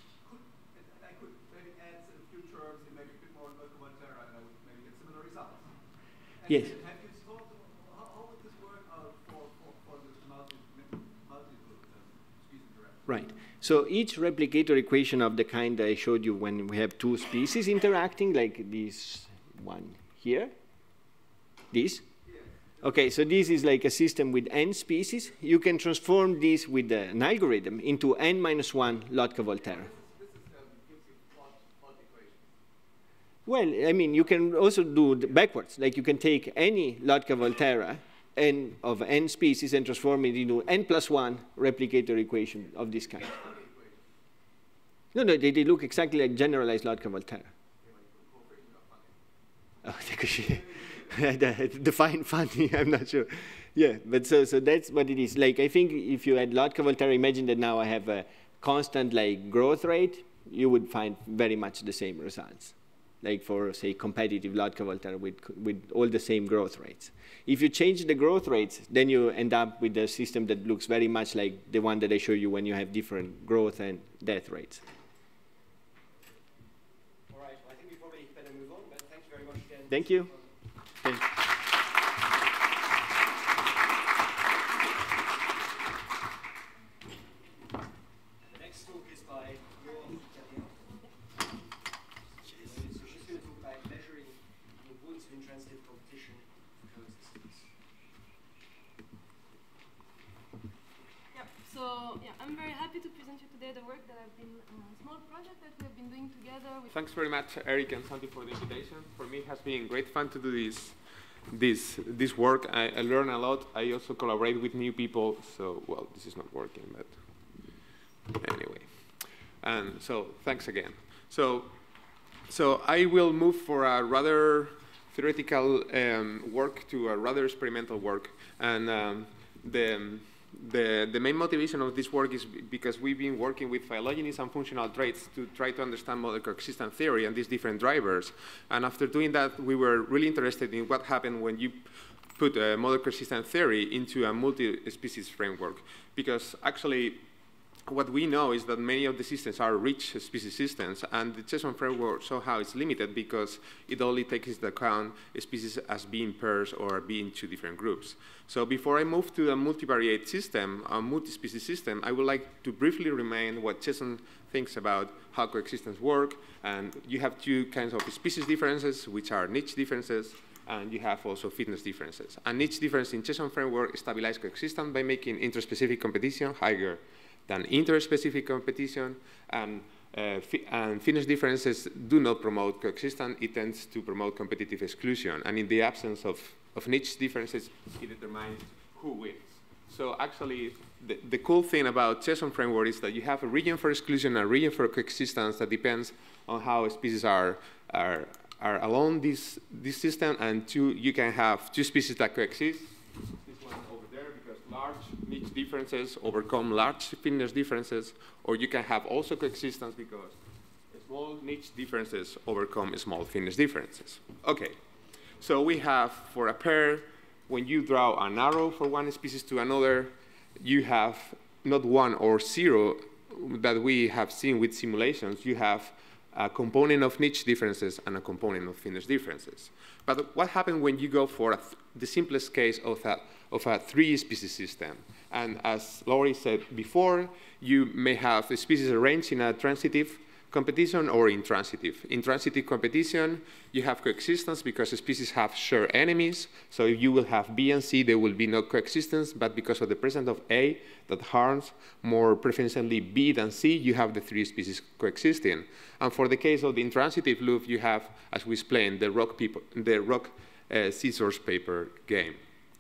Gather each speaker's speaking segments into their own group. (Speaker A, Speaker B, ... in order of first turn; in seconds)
Speaker A: 0.2-5.7, 6.4-13.1, 22.3-22.9, 29.7-32.5, 43.2-44.0, 47.8-49.1, 50.4-51.2
Speaker B: 13.1-20.5, 21.7-22.1, 22.8-29.9, 33.5-43.4, 45.1-47.5, 49.8-74.8, 79.9-80.3, 81.0-81.3
Speaker C: 77.3-80.5, 88.4-90.9, 92.4-97.7
Speaker D: 101.3-106.9
Speaker E: 106.9-117.2, 118.3-119.0, 119.6-121.7, 122.5-147.2, 147.9-210.4, 210.9-214.8, 215.4-262.4